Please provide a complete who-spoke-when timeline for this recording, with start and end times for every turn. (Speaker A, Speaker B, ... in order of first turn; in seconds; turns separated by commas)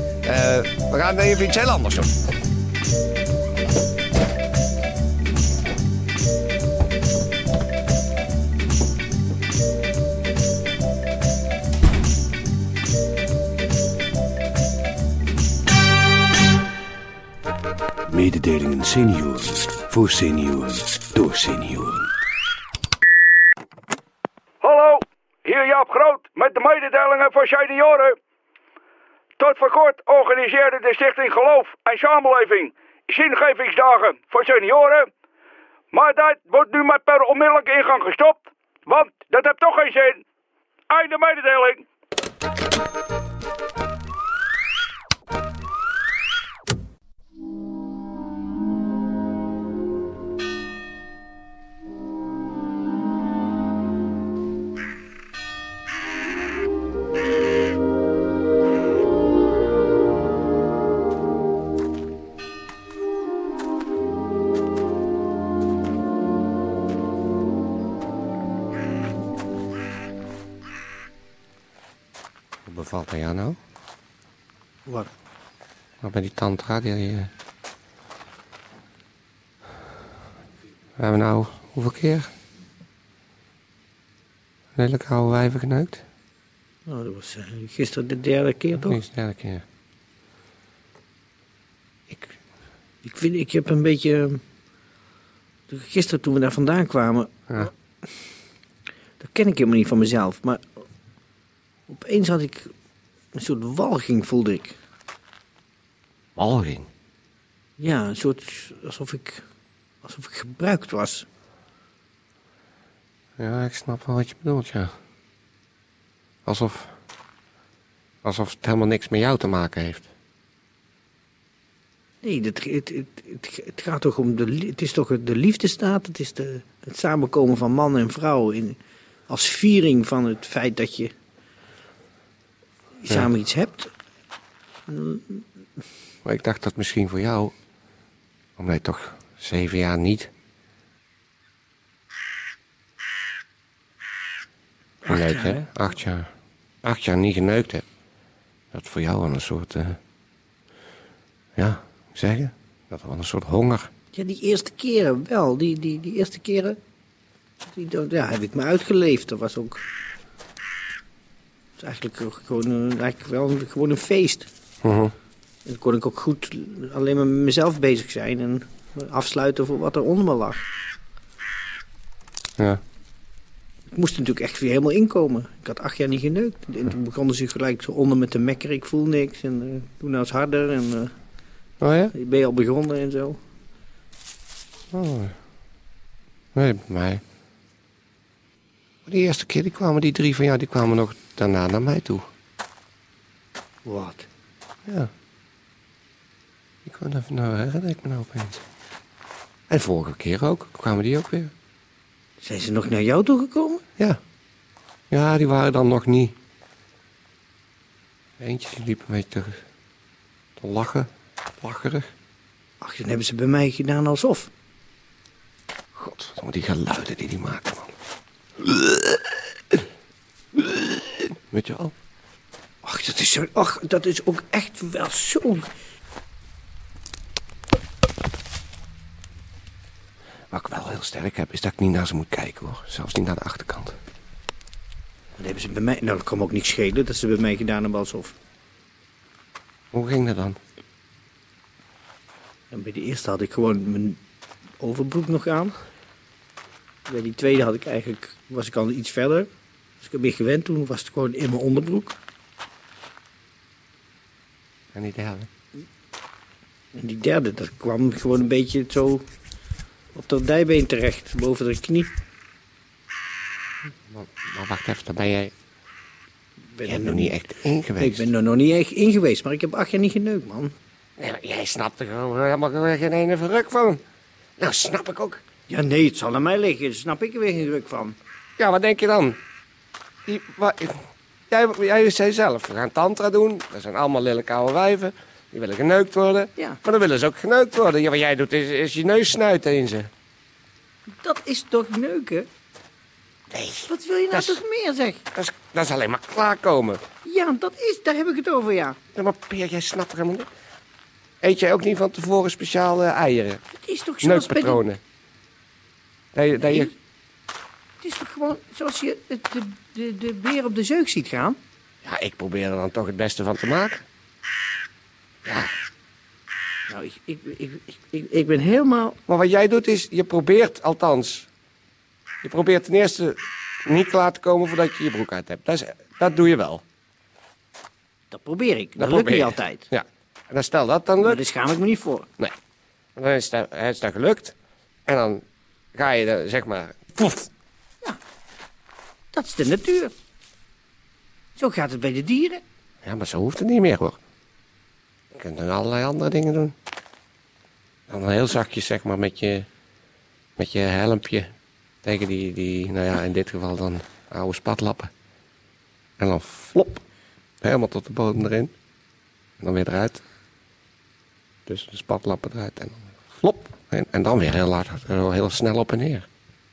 Speaker A: 0.2-2.1, Speaker B: 18.1-22.0, Speaker C: 24.6-28.2, Speaker C: 29.4-35.1, Speaker C: 35.9-40.2, Speaker C: 40.9-41.8, Speaker A: 72.7-73.6, Speaker A: 76.0-77.3, Speaker A: 81.0-82.3, Speaker A: 84.8-86.0, Speaker D: 86.9-89.0, Speaker A: 88.8-89.6, Speaker A: 92.1-92.3, Speaker D: 93.0-94.4, Speaker D: 95.7-97.7, Speaker D: 99.2-100.6, Speaker D: 101.9-102.7, Speaker D: 103.3-104.8, Speaker A: 106.4-106.9, Speaker D: 107.8-109.4, Speaker D: 110.0-111.3, Speaker A: 113.4-114.9, Speaker A: 116.5-116.9, Speaker A: 118.2-120.1, Speaker D: 122.2-128.8, Speaker D: 129.3-131.1, Speaker D: 133.0-133.9, Speaker D: 134.9-135.4, Speaker A: 136.2-137.5, Speaker A: 138.6-140.3, Speaker D: 145.0-145.6, Speaker A: 145.1-146.3, Speaker A: 146.8-147.8, Speaker A: 148.7-150.0, Speaker A: 151.6-153.9, Speaker D: 154.1-156.8, Speaker D: 157.7-159.8, Speaker D: 161.8-164.5, Speaker A: 164.8-165.1, Speaker D: 165.7-170.6, Speaker D: 173.9-181.1, Speaker A: 181.8-182.1, Speaker D: 182.1-183.4, Speaker A: 184.9-185.3, Speaker A: 186.6-187.2, Speaker A: 189.1-192.2, Speaker D: 193.8-194.3, Speaker A: 196.8-198.6, Speaker A: 199.7-201.5, Speaker D: 202.4-203.8, Speaker A: 205.1-206.3, Speaker A: 208.4-209.6, Speaker A: 210.6-211.1, Speaker A: 211.6-212.1, Speaker D: 212.8-214.5, Speaker A: 216.0-217.9, Speaker A: 218.6-219.2, Speaker A: 220.6-221.9, Speaker D: 222.8-225.7, Speaker A: 230.5-233.9, Speaker D: 235.4-238.3, Speaker A: 239.9-240.6, Speaker D: 242.7-244.2, Speaker D: 244.8-245.8, Speaker D: 247.1-249.5, Speaker D: 250.0-252.2, Speaker A: 254.9-255.5, Speaker D: 256.9-259.2, Speaker D: 260.1-262.1, Speaker A: 264.1-265.5, Speaker D: 266.7-267.4, Speaker A: 266.9-268.3, Speaker D: 268.0-270.7, Speaker A: 271.2-274.0, Speaker A: 274.6-275.4, Speaker D: 275.7-278.2, Speaker A: 278.6-279.4, Speaker A: 280.3-280.9, Speaker A: 281.5-290.1, Speaker D: 291.1-292.5, Speaker A: 293.5-294.6, Speaker D: 293.9-295.2, Speaker A: 295.3-297.0, Speaker D: 297.2-299.0, Speaker A: 299.1-300.5, Speaker A: 301.4-303.6, Speaker D: 303.8-304.8, Speaker A: 304.2-305.0, Speaker A: 306.3-306.9, Speaker D: 306.6-306.9, Speaker D: 308.0-311.6, Speaker A: 312.0-314.0, Speaker D: 316.9-319.2, Speaker A: 319.3-321.5, Speaker A: 322.4-326.8, Speaker D: 328.3-329.9, Speaker A: 329.0-331.4, Speaker D: 331.2-332.3, Speaker A: 333.2-334.6, Speaker A: 335.1-335.4, Speaker A: 335.9-337.5, Speaker D: 339.3-340.1, Speaker D: 341.6-342.6, Speaker A: 343.0-344.2, Speaker A: 345.3-346.8, Speaker A: 348.1-349.7, Speaker A: 350.6-351.5, Speaker A: 352.0-355.1, Speaker A: 356.2-357.0, Speaker A: 357.6-358.7, Speaker A: 359.6-360.2, Speaker A: 361.7-366.3